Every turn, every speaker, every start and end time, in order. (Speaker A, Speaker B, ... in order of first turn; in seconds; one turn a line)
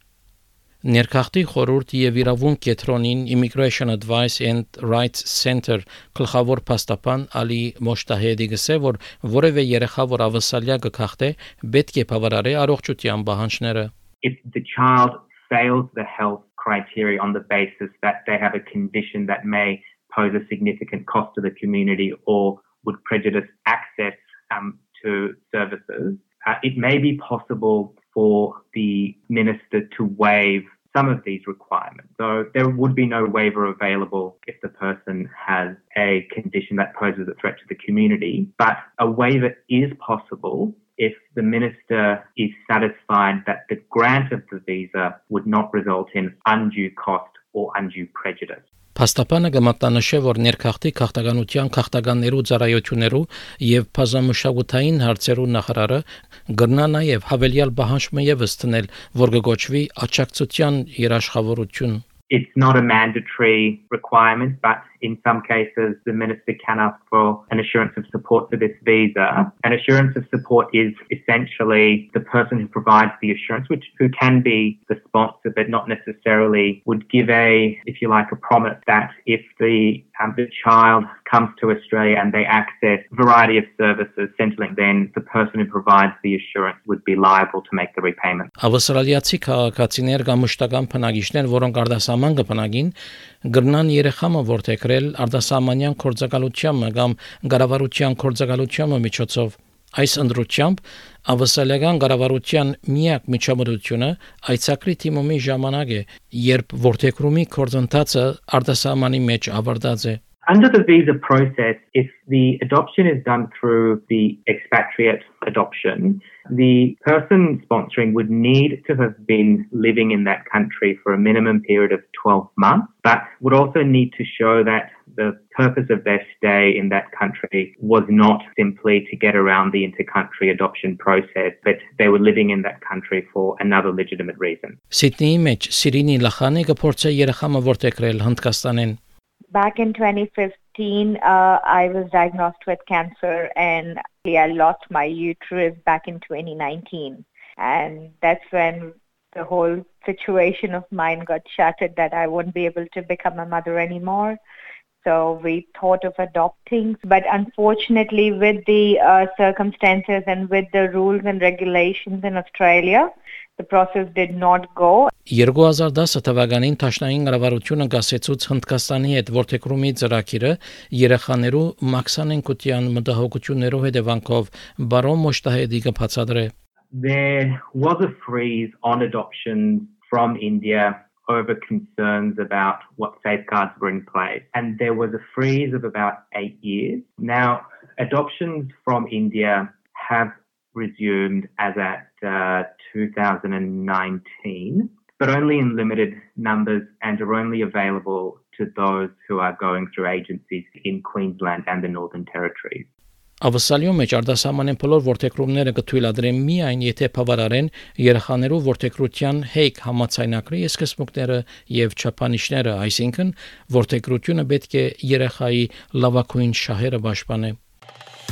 Speaker A: 0.8-13.9
Speaker B: 14.2-48.6
Speaker A: 49.0-62.0
Speaker B: 62.3-88.5
Speaker A: 88.6-92.9
Speaker A: 93.5-110.2
Speaker B: 110.5-134.8
Speaker A: 134.9-139.0
Speaker C: 139.5-154.4
Speaker C: 155.0-165.1
Speaker A: 165.3-176.5
Speaker B: 176.9-202.9
Speaker A: 203.4-217.6